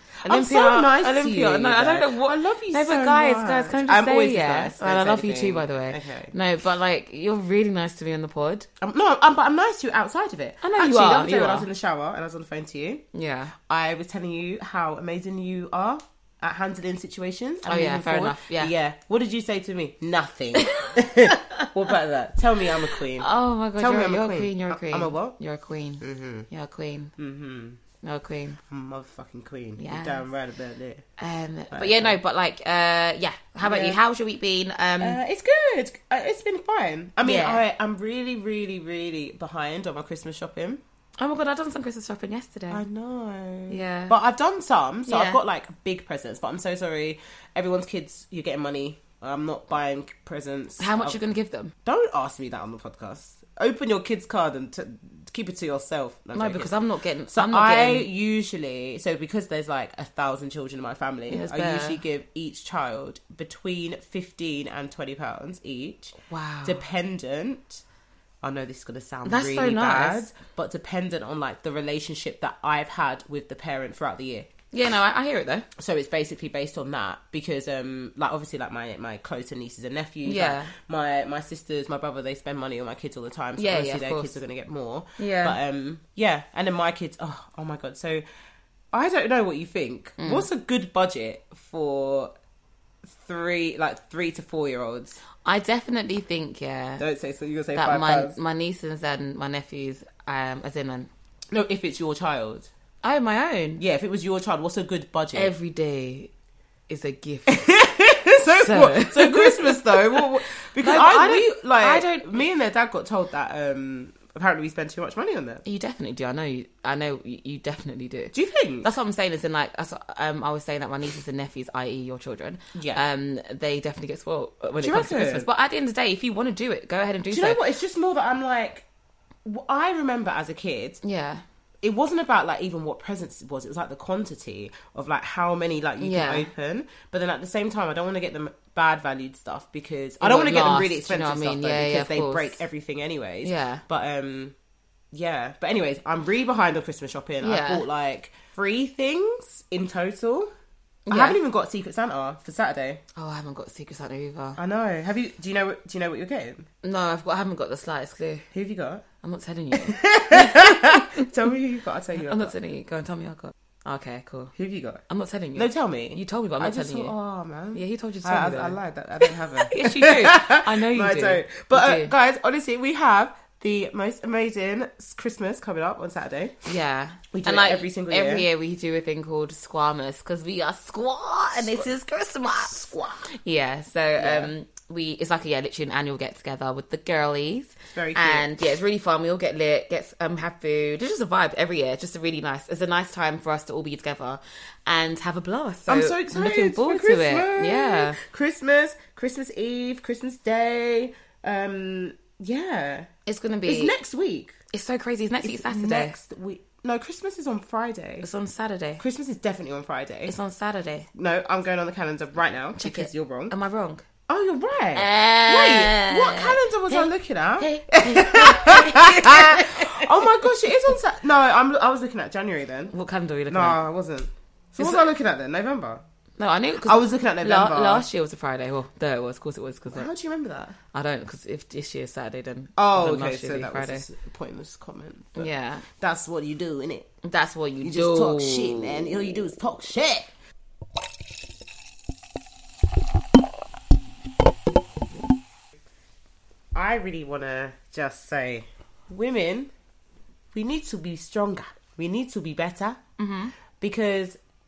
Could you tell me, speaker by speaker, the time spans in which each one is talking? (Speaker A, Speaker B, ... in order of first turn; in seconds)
Speaker A: 0.2-6.3, 8.8-13.0, 13.7-25.4, 26.0-26.5, 27.2-27.8, 28.7-31.0, 31.7-32.2, 33.6-34.0, 35.0-40.8, 42.7-51.2, 51.8-56.7, 57.3-67.8, 68.4-74.5, 75.8-88.2, 88.9-92.3, 93.1-95.2, 97.0-98.4, 101.5-102.7, 103.8-105.5, 107.5-115.6, 118.3-118.9, 122.7-123.0, 124.8-125.5, 127.3-128.8, 129.4-131.0, 131.8-144.5, 145.1-150.5, 151.1-153.0, 154.6-156.7, 158.5-159.0, 159.7-162.5, 164.5-165.0, 165.5-176.6, 177.3-178.4, 181.6-181.9, 182.6-183.3, 184.2-184.5, 187.9-188.5, 195.9-203.1, 203.7-204.5, 205.4-208.3, 209.0-210.3, 211.1-213.5, 214.3-222.9, 223.5-226.0, 226.8-228.0, 229.9-230.8, 232.8-237.1, 237.8-240.3, 246.7-249.7, 250.5-253.0, 253.8-254.4
Speaker B: 0.2-8.7, 10.6-11.7, 13.1-13.5, 17.6-18.7, 20.6-21.7, 23.1-27.1, 28.0-28.6, 29.8-30.2, 31.2-35.2, 37.2-37.6, 41.2-42.8, 43.7-44.1, 45.1-45.4, 50.8-51.7, 56.3-58.1, 61.3-62.0, 66.2-66.8, 69.2-70.2, 74.7-75.7, 80.2-80.7, 83.6-84.4, 85.2-85.6, 90.2-90.5, 95.4-97.0, 97.7-101.1, 103.0-103.8, 105.3-106.3, 106.9-107.8, 108.5-112.4, 115.6-127.6, 131.0-131.4, 136.0-136.5, 140.2-142.6, 143.4-143.8, 147.4-147.8, 151.1-151.4, 153.1-154.6, 156.8-158.4, 159.2-161.3, 162.2-164.5, 165.1-167.1, 167.7-172.1, 176.7-198.2, 203.2-203.9, 204.7-206.1, 208.2-209.0, 210.2-211.1, 212.8-214.0, 214.9-220.9, 222.9-223.8, 224.8-225.1, 226.4-230.1, 230.9-234.1, 235.3-235.8, 237.2-239.2, 253.2-253.5